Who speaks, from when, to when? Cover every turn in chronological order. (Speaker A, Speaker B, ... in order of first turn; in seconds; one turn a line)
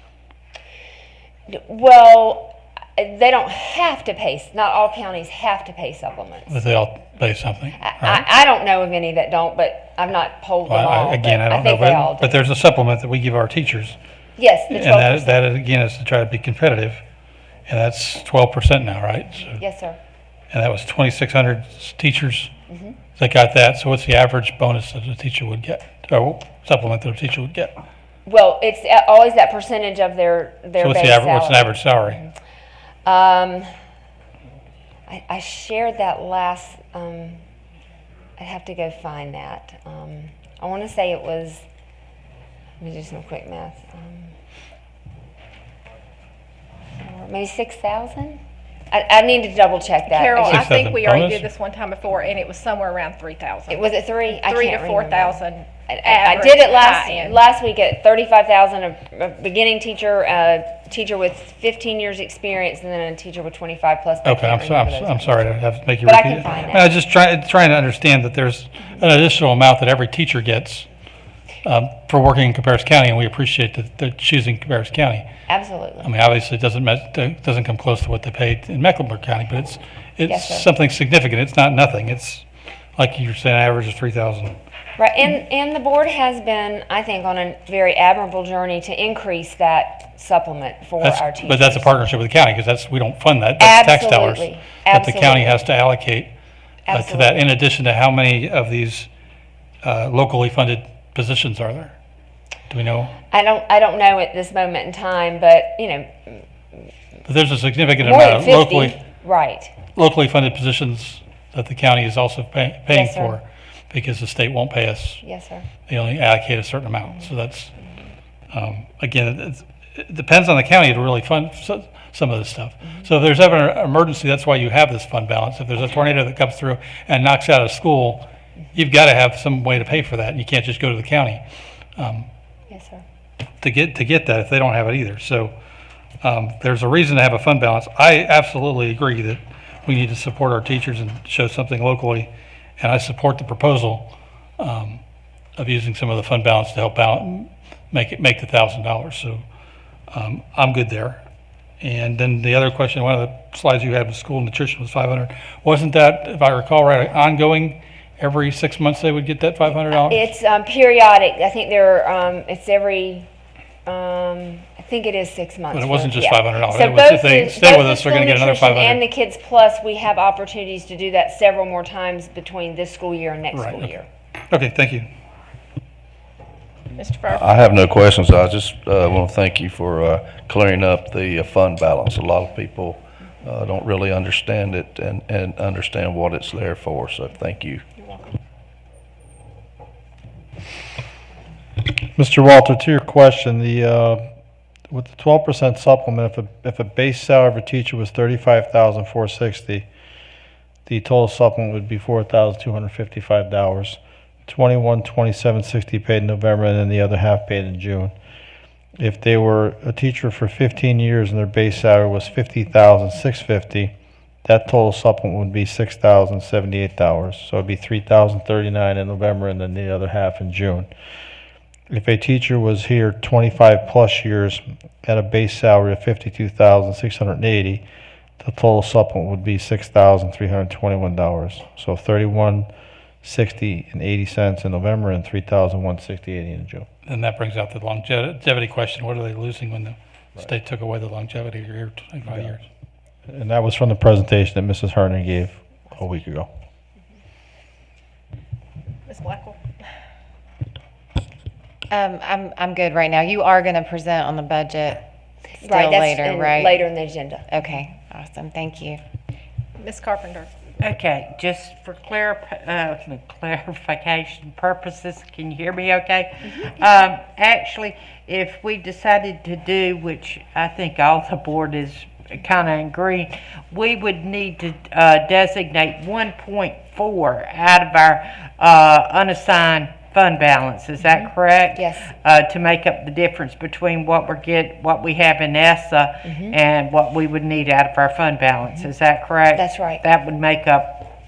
Speaker A: 1.5-6.5
Speaker B: 6.5-8.2
Speaker A: 7.8-12.4
Speaker B: 10.7-14.0
Speaker A: 14.4-15.4
Speaker B: 14.7-17.0
Speaker B: 17.7-19.6
Speaker A: 19.6-20.0
Speaker B: 20.5-22.5
Speaker A: 22.7-23.0
Speaker B: 23.2-27.8
Speaker A: 28.3-32.3
Speaker B: 30.8-32.2
Speaker A: 33.0-33.7
Speaker A: 35.1-37.4
Speaker A: 38.4-41.6
Speaker A: 42.8-44.3
Speaker A: 47.0-48.4
Speaker A: 48.9-50.7
Speaker C: 50.1-57.4
Speaker B: 50.4-51.5
Speaker A: 53.7-65.5
Speaker B: 64.2-70.9
Speaker A: 66.0-66.9
Speaker B: 71.6-75.3
Speaker A: 75.5-76.1
Speaker B: 76.0-82.5
Speaker A: 80.3-80.7
Speaker B: 83.0-84.6
Speaker A: 85.0-91.9
Speaker B: 91.0-96.3
Speaker A: 93.6-95.6
Speaker A: 96.9-97.4
Speaker B: 96.9-99.1
Speaker B: 99.8-102.0
Speaker B: 102.7-103.1
Speaker A: 103.3-106.5
Speaker B: 107.2-109.0
Speaker A: 108.0-109.7
Speaker B: 109.9-115.2
Speaker A: 112.9-113.4
Speaker A: 115.2-115.7
Speaker B: 115.9-117.8
Speaker B: 118.5-131.4
Speaker B: 132.0-132.3
Speaker A: 132.7-133.0
Speaker B: 133.6-135.6
Speaker B: 136.2-145.0
Speaker B: 145.6-149.4
Speaker B: 150.1-151.2
Speaker B: 151.8-160.2
Speaker A: 159.9-163.3
Speaker A: 163.9-174.1
Speaker B: 165.7-169.0
Speaker B: 173.5-174.0
Speaker B: 174.5-175.1
Speaker C: 177.0-177.5
Speaker D: 177.3-187.8
Speaker A: 188.0-188.3
Speaker E: 192.1-194.2
Speaker E: 194.9-199.9
Speaker E: 200.9-208.1
Speaker E: 209.0-213.9
Speaker E: 214.4-220.9
Speaker E: 221.9-227.8
Speaker E: 228.4-232.7
Speaker E: 233.2-236.9
Speaker B: 237.1-242.7
Speaker E: 242.3-242.6
Speaker E: 243.3-246.5
Speaker C: 249.1-249.6
Speaker F: 251.9-255.0
Speaker A: 255.6-257.6
Speaker F: 255.6-256.8
Speaker F: 257.5-259.0
Speaker C: 259.8-260.5
Speaker G: 260.8-291.1
Speaker A: 281.2-282.1
Speaker A: 286.3-286.6
Speaker A: 289.6-290.0